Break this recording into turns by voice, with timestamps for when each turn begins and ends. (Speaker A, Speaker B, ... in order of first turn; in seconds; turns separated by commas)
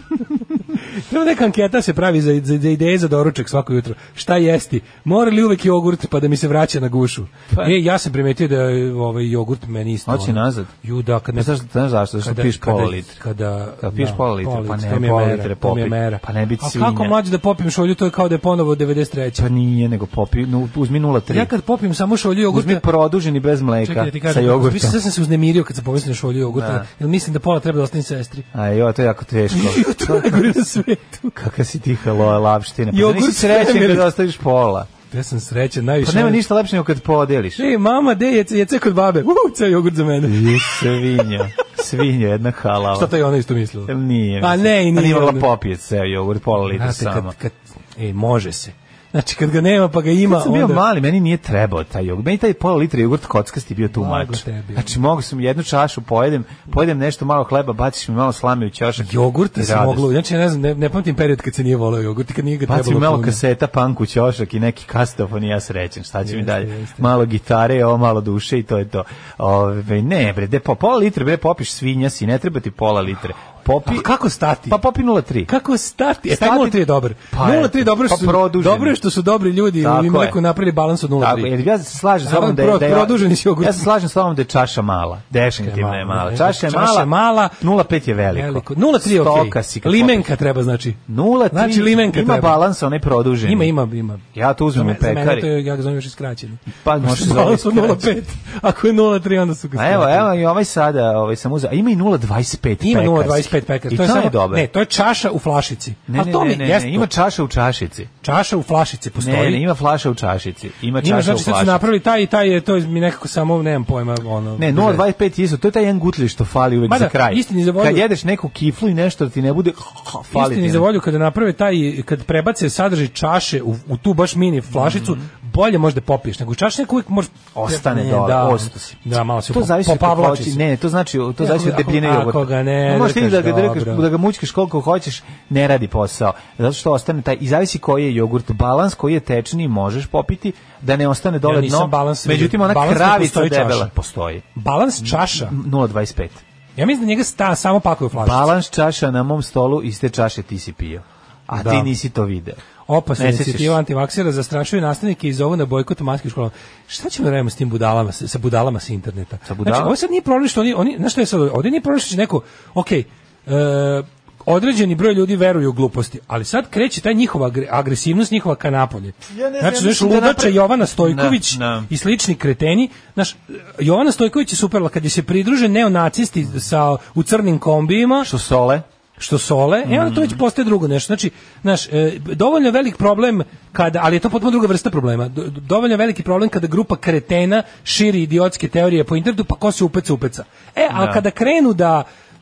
Speaker A: 0.8-11.6, Speaker B: 10.1-10.7, Speaker B: 11.3-13.2, Speaker A: 12.2-19.5, Speaker B: 13.8-17.2, Speaker B: 19.4-21.5, Speaker A: 21.3-22.8, Speaker B: 22.5-25.0, Speaker A: 23.8-28.5, Speaker B: 26.5-26.9, Speaker B: 28.5-30.6, Speaker A: 29.5-31.4, Speaker B: 31.4-34.9, Speaker A: 32.9-34.1, Speaker A: 35.1-36.4, Speaker B: 36.0-37.6, Speaker A: 37.6-40.8, Speaker B: 40.2-43.1, Speaker A: 42.9-45.5, Speaker B: 43.9-47.3, Speaker A: 46.7-50.8, Speaker B: 50.2-60.1, Speaker A: 53.9-54.9, Speaker A: 59.0-63.4, Speaker B: 62.7-74.1, Speaker A: 66.2-67.1, Speaker A: 73.8-74.8, Speaker B: 74.7-75.5, Speaker A: 75.5-81.5, Speaker B: 76.3-79.0, Speaker B: 79.8-80.4, Speaker B: 81.2-90.3, Speaker A: 82.2-83.9, Speaker A: 85.6-87.6, Speaker A: 88.3-91.0, Speaker B: 91.1-93.7, Speaker A: 91.5-92.6, Speaker A: 93.4-100.3, Speaker B: 94.3-95.5, Speaker B: 96.8-98.1, Speaker B: 99.8-104.7, Speaker A: 102.8-107.1, Speaker B: 106.1-108.1, Speaker A: 108.2-109.6, Speaker B: 109.2-111.9, Speaker A: 111.0-115.0, Speaker B: 114.6-120.9, Speaker A: 116.9-118.0, Speaker A: 120.3-130.6, Speaker B: 124.7-125.3, Speaker B: 127.5-129.0, Speaker B: 129.5-144.5, Speaker A: 131.4-134.1, Speaker A: 141.4-143.9, Speaker A: 144.6-145.6, Speaker B: 145.0-146.4, Speaker A: 146.8-148.5, Speaker B: 148.2-152.6, Speaker A: 151.5-151.9, Speaker A: 152.9-178.3, Speaker B: 153.2-153.8, Speaker B: 159.5-159.9, Speaker B: 169.3-171.9, Speaker B: 178.2-178.8, Speaker A: 179.2-192.1, Speaker B: 179.8-180.4, Speaker B: 190.9-191.2